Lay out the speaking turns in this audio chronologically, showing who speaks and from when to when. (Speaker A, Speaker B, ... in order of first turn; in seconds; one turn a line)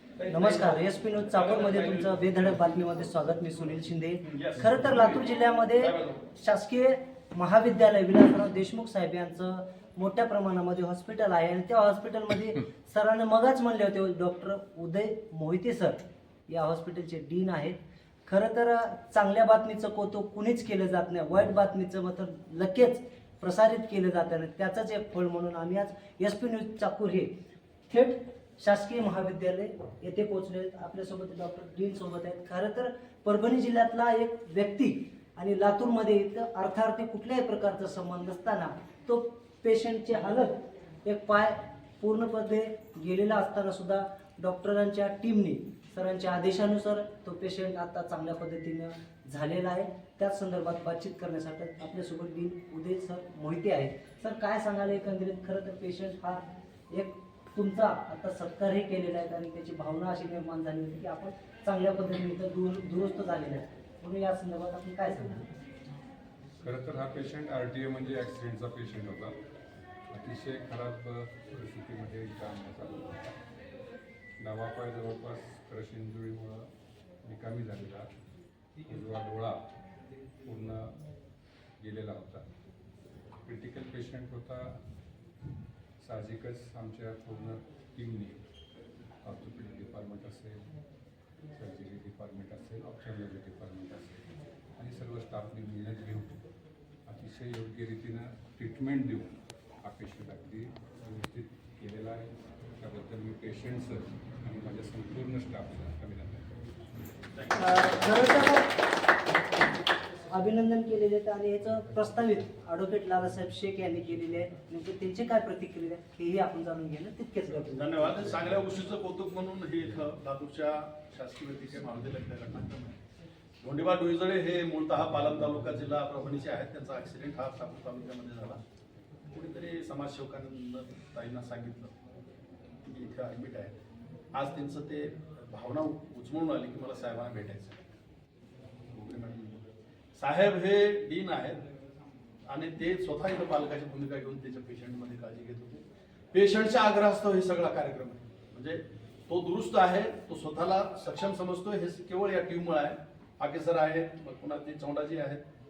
Speaker A: 0.2-2.4
Speaker B: 0.3-27.3
Speaker A: 4.2-6.2
Speaker B: 27.9-65.5
Speaker C: 66.6-69.3
Speaker C: 70.1-73.3
Speaker C: 74.4-76.7
Speaker C: 77.2-78.1
Speaker C: 78.9-79.6
Speaker C: 80.5-80.9
Speaker C: 81.8-82.4
Speaker C: 83.5-84.7
Speaker C: 86.0-88.4
Speaker C: 89.2-90.6
Speaker C: 91.6-94.2
Speaker C: 94.8-96.3
Speaker C: 97.1-99.3
Speaker C: 99.8-102.3
Speaker C: 102.8-106.4
Speaker A: 107.3-107.8
Speaker B: 107.5-108.8
Speaker B: 110.3-118.2
Speaker A: 117.7-123.0
Speaker A: 123.6-128.6
Speaker A: 129.3-131.9
Speaker A: 132.8-133.7
Speaker A: 134.3-137.8
Speaker A: 138.9-141.6
Speaker A: 142.5-155.4